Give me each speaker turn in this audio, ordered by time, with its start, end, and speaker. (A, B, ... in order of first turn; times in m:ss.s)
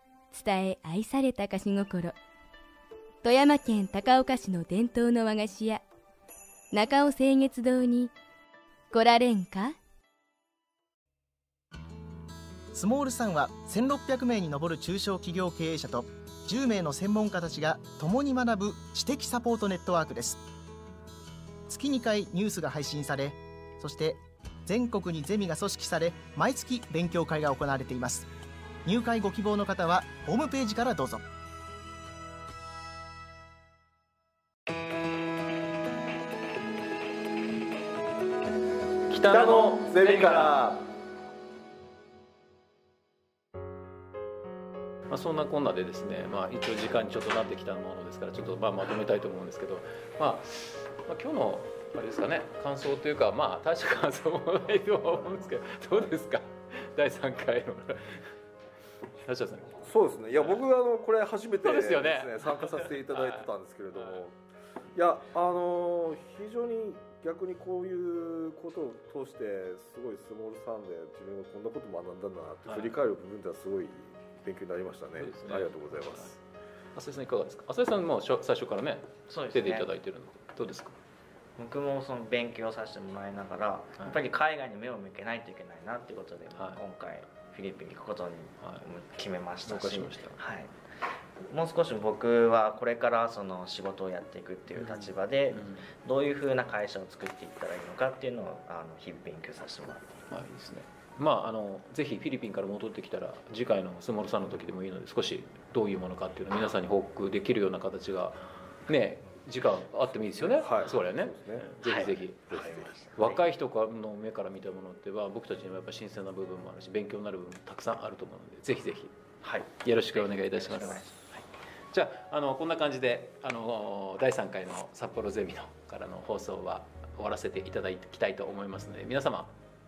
0:00.3-0:02.1 A
0:03.2-0:05.8 A
0:06.7-0:08.1 A
0:08.9-0:09.8 A
0:12.7-0:20.4 B
0:21.7-0:28.3 B
0:28.8-0:31.2 B
0:39.1-0:40.5 C
0:39.2-0:40.8 D
0:45.1-0:58.3 C
0:59.2-0:59.8 C
0:59.8-1:04.4 D
1:00.4-1:00.6 C
1:01.6-1:04.2 C
1:04.9-1:16.4 D
1:12.6-1:13.0 C
1:15.2-1:16.4 C
1:16.9-1:21.0 C
1:19.3-1:19.9 E
1:21.6-1:40.2 E
1:26.5-1:26.8 C
1:29.6-1:30.4 C
1:34.7-1:35.9 C
1:40.3-1:59.1 C
1:50.4-1:52.9 D
1:51.8-1:53.5 E
1:59.4-2:01.1 E
1:59.8-2:09.5 C